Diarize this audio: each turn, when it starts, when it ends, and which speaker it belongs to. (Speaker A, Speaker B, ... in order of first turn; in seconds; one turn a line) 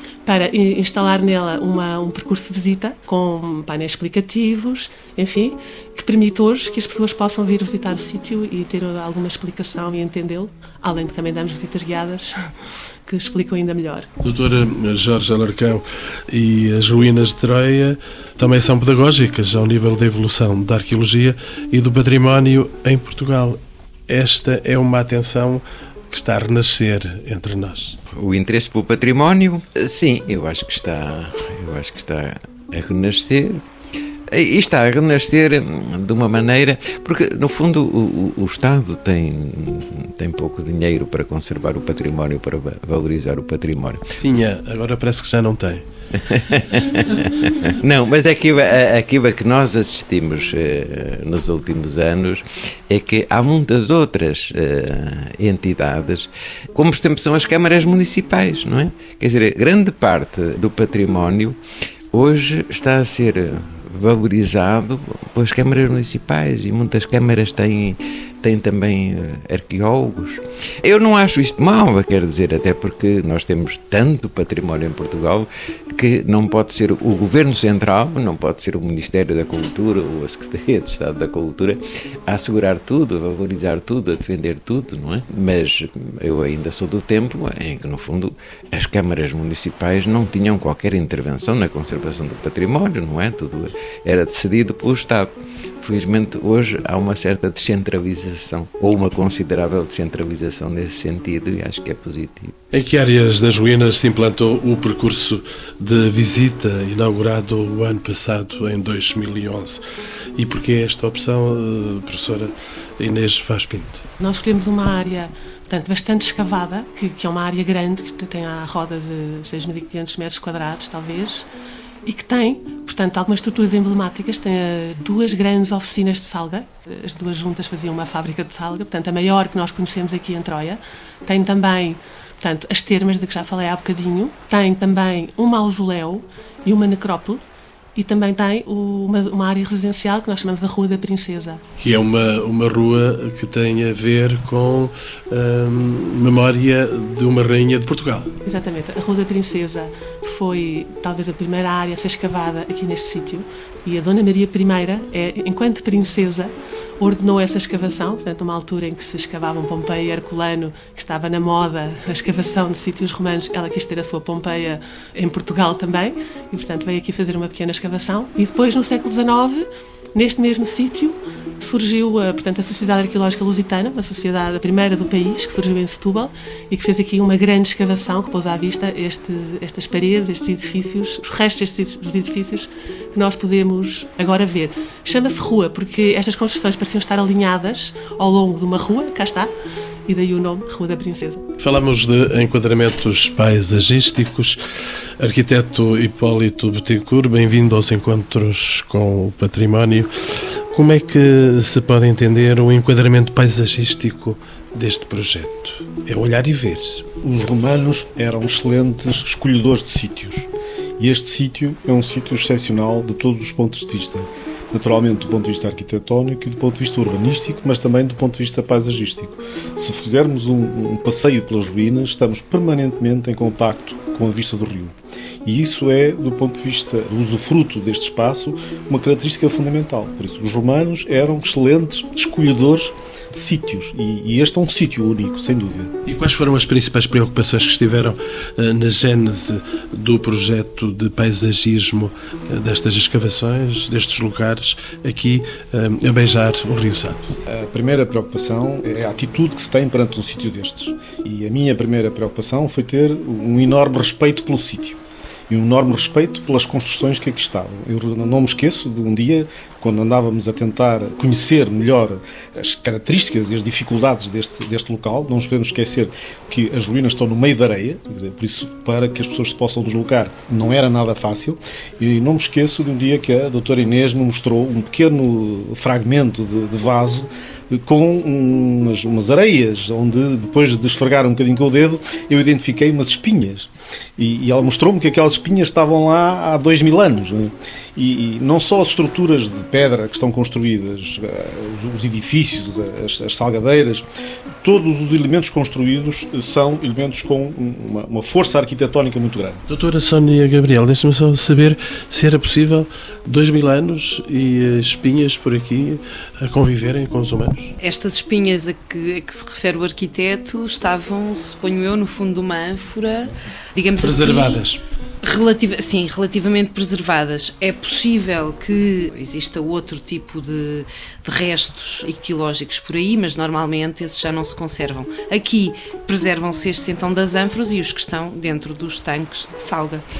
Speaker A: 0.2-12.5
Speaker A: 13.1-14.1
Speaker B: 14.2-28.0
Speaker C: 28.1-33.6
Speaker C: 34.3-44.0
Speaker B: 44.2-45.9
Speaker C: 46.2-61.6
Speaker C: 62.1-102.5
Speaker B: 102.7-109.8
Speaker B: 110.4-114.0
Speaker A: 114.2-121.5
Speaker A: 122.1-137.4
Speaker A: 137.9-141.6
Speaker B: 141.8-148.3
Speaker A: 148.4-189.5
Speaker A: 190.1-191.4
Speaker B: 191.6-194.6
Speaker B: 195.2-207.1
Speaker D: 207.2-224.9
Speaker D: 225.4-235.9
Speaker B: 236.1-247.3
Speaker D: 247.5-255.0
Speaker D: 255.5-294.1
Speaker D: 294.6-299.6
Speaker B: 299.7-307.8
Speaker E: 307.8-314.6
Speaker B: 314.0-314.8
Speaker E: 315.2-330.1